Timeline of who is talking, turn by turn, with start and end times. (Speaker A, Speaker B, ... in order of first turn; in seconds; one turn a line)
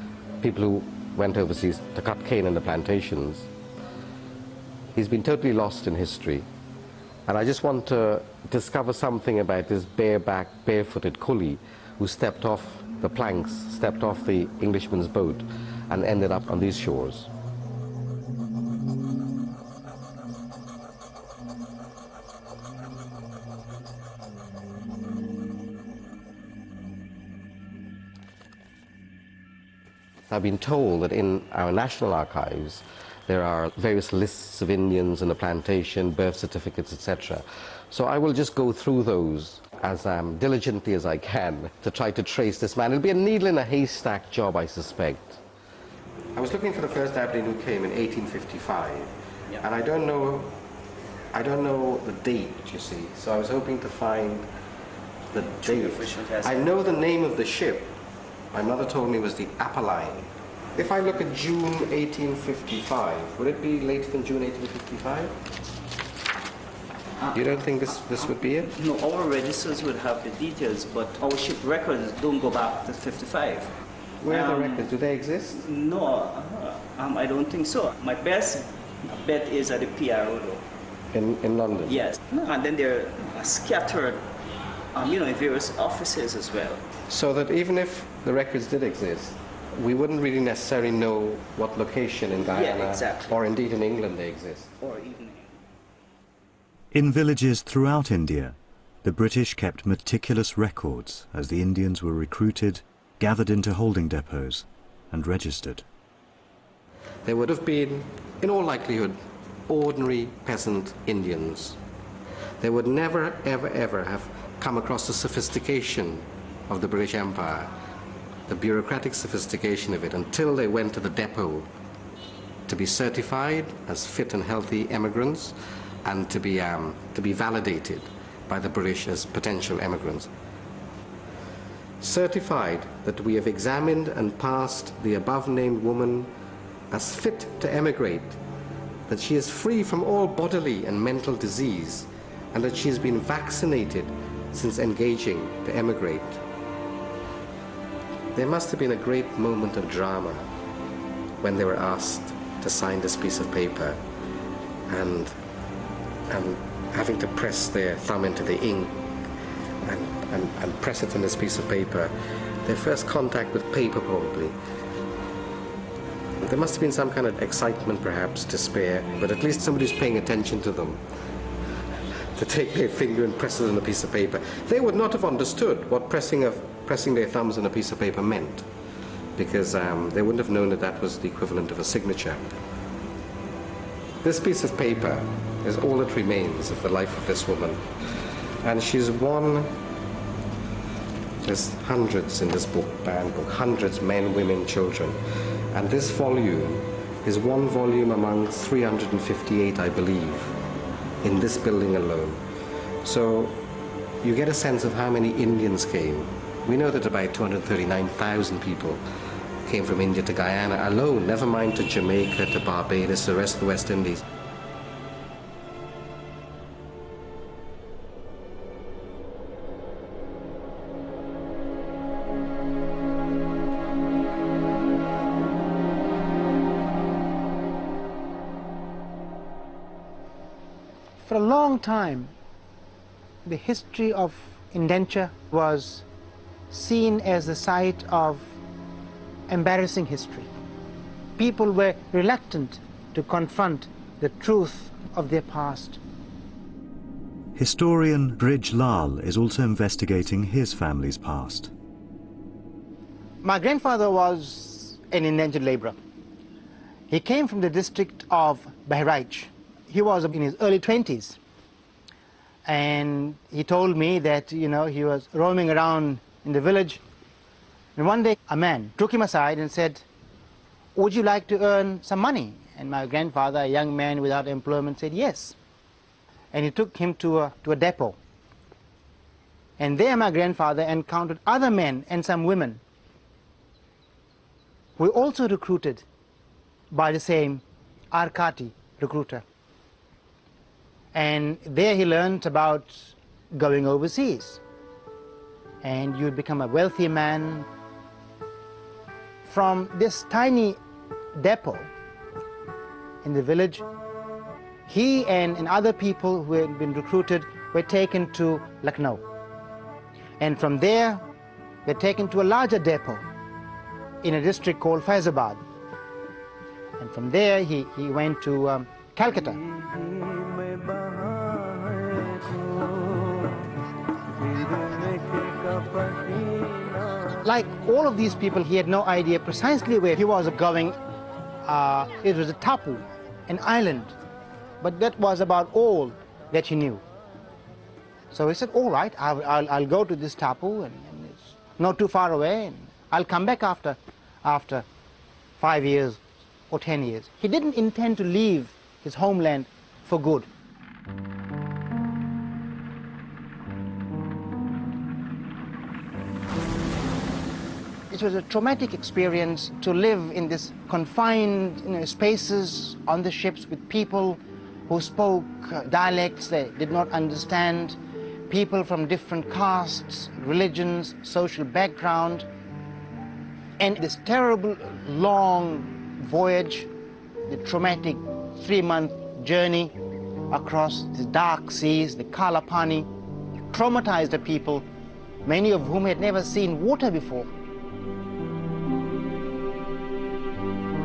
Speaker A: 0.4-3.5
Speaker A: 5.0-6.5
Speaker A: 7.3-17.3
Speaker A: 30.3-45.4
Speaker A: 46.4-50.5
Speaker A: 51.3-54.5
Speaker A: 55.3-58.0
Speaker B: 55.5-56.7
Speaker A: 58.5-65.3
Speaker A: 67.3-68.7
Speaker B: 68.7-73.7
Speaker A: 74.2-75.6
Speaker B: 74.3-74.9
Speaker B: 75.5-80.6
Speaker A: 81.1-82.1
Speaker B: 81.9-84.3
Speaker B: 85.0-86.8
Speaker A: 87.1-94.7
Speaker B: 92.4-93.4
Speaker B: 94.8-95.5
Speaker C: 96.9-105.8
Speaker A: 107.2-111.8
Speaker A: 112.6-117.7
Speaker A: 118.5-121.7
Speaker A: 122.7-130.3
Speaker A: 132.0-136.3
Speaker A: 136.9-138.4
Speaker A: 139.1-146.4
Speaker A: 148.3-150.5
Speaker A: 151.4-154.0
Speaker A: 154.9-155.4
Speaker A: 156.3-159.0
Speaker A: 159.8-162.1
Speaker A: 162.6-164.6
Speaker A: 166.4-171.0
Speaker A: 172.3-178.7
Speaker A: 179.4-182.4
Speaker A: 184.2-187.9
Speaker A: 188.6-189.8
Speaker A: 191.4-195.2
Speaker A: 195.7-200.6
Speaker A: 201.2-202.4
Speaker A: 203.0-203.6
Speaker A: 204.2-209.0
Speaker A: 209.7-214.2
Speaker D: 231.2-232.3
Speaker D: 233.4-236.1
Speaker D: 236.7-238.6
Speaker D: 239.5-240.5
Speaker D: 241.4-246.0
Speaker C: 247.6-251.7
Speaker D: 253.4-256.0
Speaker D: 257.1-261.4
Speaker D: 262.7-267.0
Speaker D: 268.0-270.1
Speaker D: 271.0-275.6
Speaker D: 276.5-278.2
Speaker D: 279.8-282.8
Speaker D: 285.0-286.1
Speaker D: 286.9-289.4
Speaker D: 291.1-294.6
Speaker D: 295.8-297.7
Speaker D: 299.5-300.8
Speaker D: 301.4-301.9
Speaker D: 303.2-303.9
Speaker D: 304.9-309.2
Speaker D: 310.4-311.2
Speaker D: 311.9-313.3
Speaker D: 314.2-315.6
Speaker D: 317.0-319.6
Speaker D: 327.4-331.0
Speaker D: 331.6-334.1
Speaker D: 334.8-337.0
Speaker D: 338.3-344.9
Speaker D: 345.6-350.5
Speaker D: 358.1-368.0
Speaker D: 368.5-372.5
Speaker D: 373.8-376.9
Speaker D: 377.5-379.9
Speaker D: 380.5-383.1
Speaker D: 383.7-384.9
Speaker D: 385.4-387.5